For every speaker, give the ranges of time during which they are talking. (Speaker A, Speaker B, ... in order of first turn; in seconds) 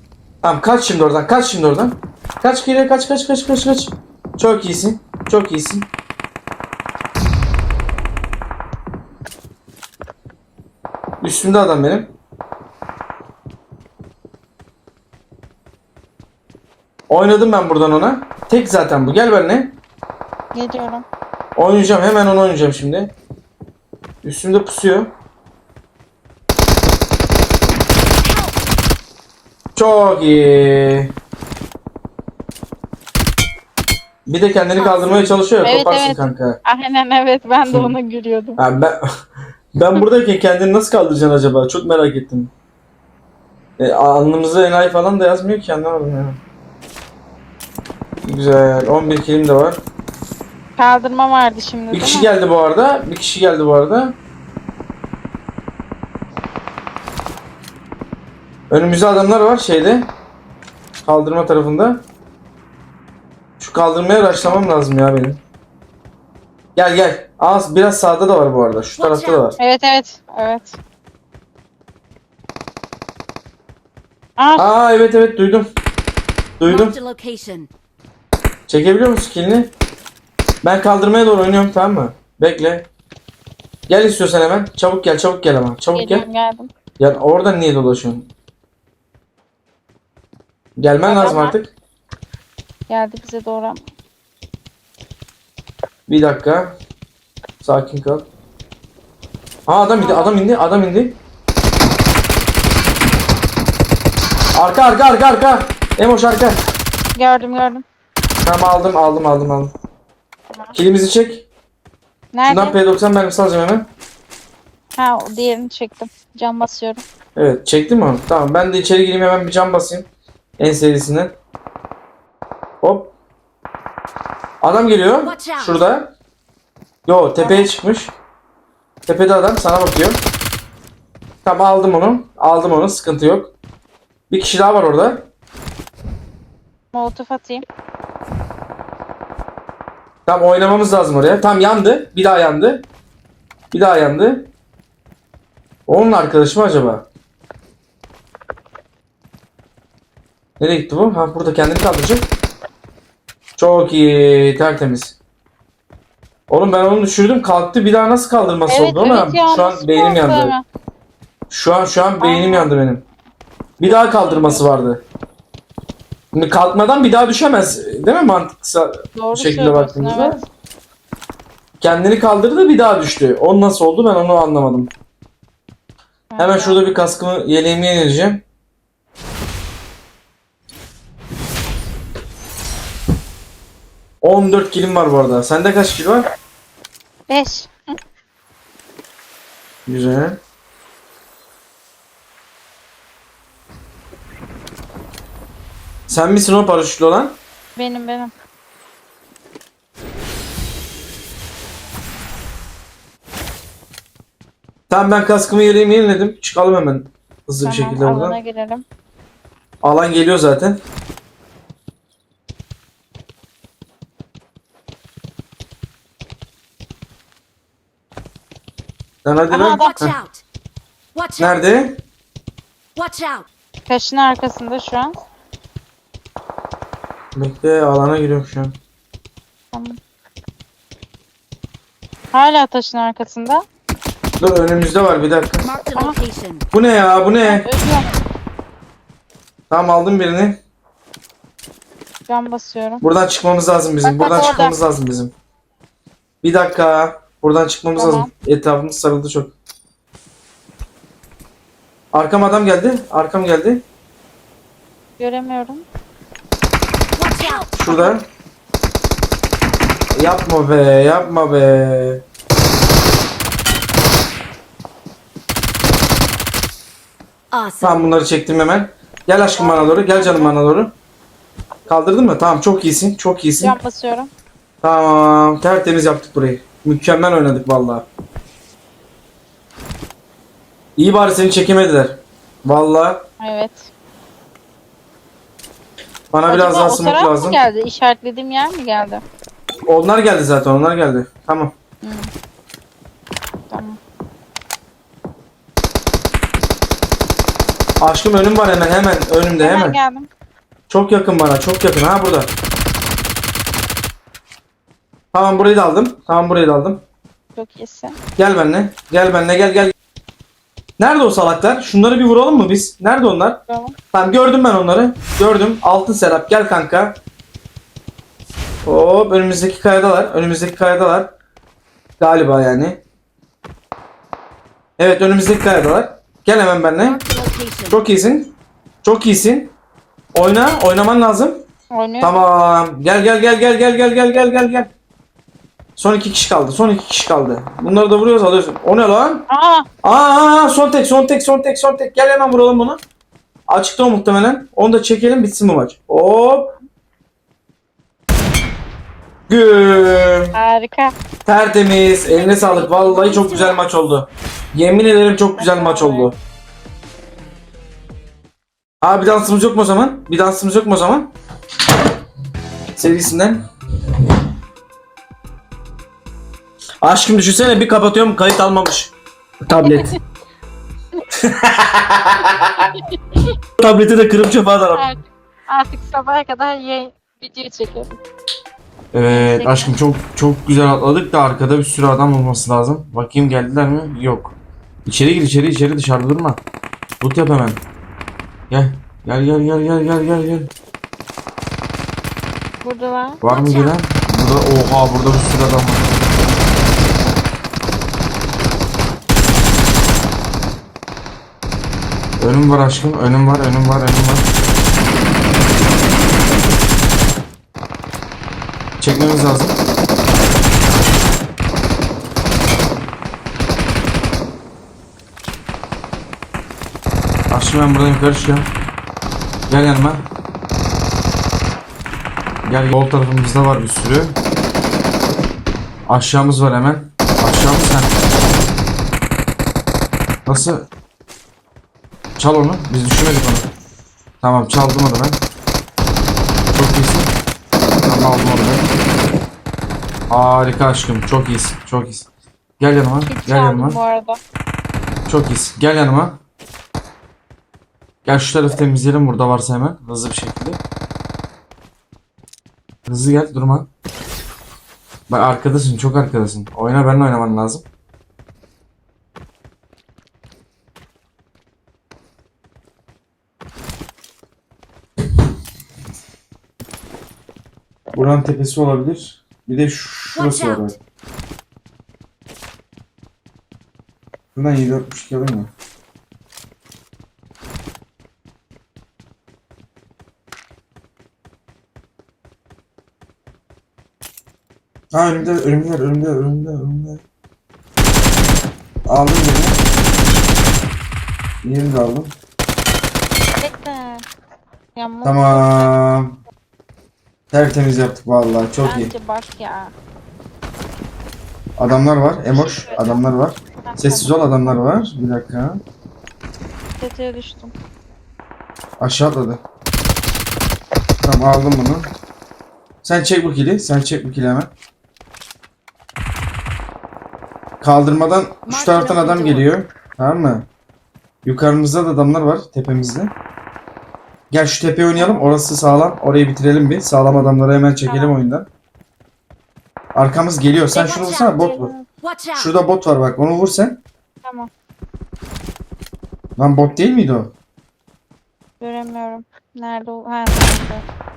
Speaker A: 0.4-5.9, 11.2-12.1, 17.1-19.8, 21.6-23.1, 24.2-25.1, 29.8-31.1, 34.3-36.6, 37.6-37.9, 38.6-39.0, 39.7-42.5, 43.8-46.4, 48.2-49.8, 51.9-54.1, 58.7-60.1, 61.0-62.0, 63.6-65.4, 66.7-69.6, 74.5-75.7, 76.6-77.0, 78.7-79.7, 80.6-82.9, 83.9-86.2, 87.0-88.3, 90.8-91.7, 96.1-96.8, 97.6-98.3, 99.7-101.2, 104.5-106.6, 108.4-109.7, 110.7-111.5, 112.5-113.9, 117.3-120.0, 120.6-121.3, 122.8-123.1, 124.6-126.1, 127.0-128.2, 129.1-130.2, 131.4-133.5, 134.3-135.3, 140.2-142.9, 143.7-144.5, 145.9-147.1, 150.6-152.3, 153.6-155.2, 156.5-160.5, 161.5-163.1, 163.8-165.0, 166.3-170.4, 171.8-174.9, 176.4-178.4, 184.2-186.3, 189.9-190.4, 196.1-197.4, 204.9-208.4, 209.8-210.8, 219.2-220.2, 221.4-222.0, 227.3-228.8, 234.4-235.7, 236.7-237.7, 239.7-240.6, 243.0-245.3, 246.4-249.5, 252.1-253.8, 257.8-258.2, 260.1-262.2, 267.8-270.9, 271.9-273.8, 274.8-278.1, 281.0-283.2, 286.3-287.6, 289.9-291.7, 298.0-300.0, 300.9-302.5, 305.3-307.0, 308.4-309.9, 311.0-313.6, 314.1-317.2, 318.8-321.3, 322.2-323.0, 325.0-327.2, 327.9-329.7, 330.3-331.6, 332.2-334.9, 335.9-339.4, 340.0-343.0, 343.7-346.7, 349.5-350.5, 351.4-356.3, 359.0-361.3, 362.9-363.6, 367.0-369.1, 369.6-370.1, 371.4-372.9, 373.8-375.0, 379.1-386.6, 387.2-387.8, 388.7-390.7, 393.4-396.0, 402.4-404.5, 409.0-409.8, 417.5-418.7, 419.7-420.3, 422.6-424.4, 426.1-428.2, 430.4-430.9, 432.4-433.7, 434.4-435.4, 436.7-437.3, 438.0-438.9, 440.3-442.3, 442.8-444.0, 445.3-446.4, 448.2-450.8, 453.1-453.9, 455.3-457.8, 468.1-471.0, 474.5-475.7, 485.1-487.2, 489.1-489.8, 491.6-492.3, 495.2-496.4, 497.5-499.1, 501.8-505.8, 509.0-509.6, 511.2-512.1, 513.0-514.7, 517.8-520.7, 521.4-523.3, 524.5-528.7, 530.1-531.9, 532.5-534.0, 536.6-537.5
Speaker B: 20.5-21.0, 34.8-38.6, 50.8-52.3, 69.6-70.8, 74.4-74.7, 85.9-86.7, 91.0-91.5, 92.9-93.8, 100.0-100.4, 107.1-107.8, 112.3-112.8, 115.0-117.0, 127.4-127.7, 136.9-137.6, 158.7-160.6, 162.2-162.7, 163.8-164.7, 169.1-170.4, 176.3-176.9, 187.3-187.7, 197.7-198.3, 207.6-208.8, 219.5-219.9, 223.9-225.2, 229.7-230.0, 232.3-233.6, 237.4-238.1, 242.3-243.0, 244.0-244.8, 247.9-248.3, 255.2-255.8, 257.8-258.1, 269.5-270.6, 273.6-274.3, 283.4-283.9, 286.5-289.2, 292.0-292.3, 293.7-294.0, 299.6-300.3, 307.6-308.2, 313.7-313.9, 331.9-332.3, 339.5-339.9, 350.5-351.1, 352.2-353.8, 355.6-356.3, 369.8-370.1, 374.9-378.2, 379.2-379.9, 392.8-393.9, 443.2-444.4, 493.6-494.2, 494.9-495.9, 498.8-499.9, 502.5-503.2, 503.8-504.9, 507.0-507.7, 525.1-525.5, 528.0-528.3, 531.6-532.0, 534.4-534.7, 538.8-541.0
Speaker C: 28.2-28.5, 69.0-69.4, 76.6-77.7, 125.2-125.8, 219.8-220.4, 221.1-221.6, 222.9-223.5, 235.6-236.6, 257.2-257.8, 267.5-268.1, 327.0-328.0, 470.3-470.9, 518.7-519.7, 530.9-531.6, 532.2-532.7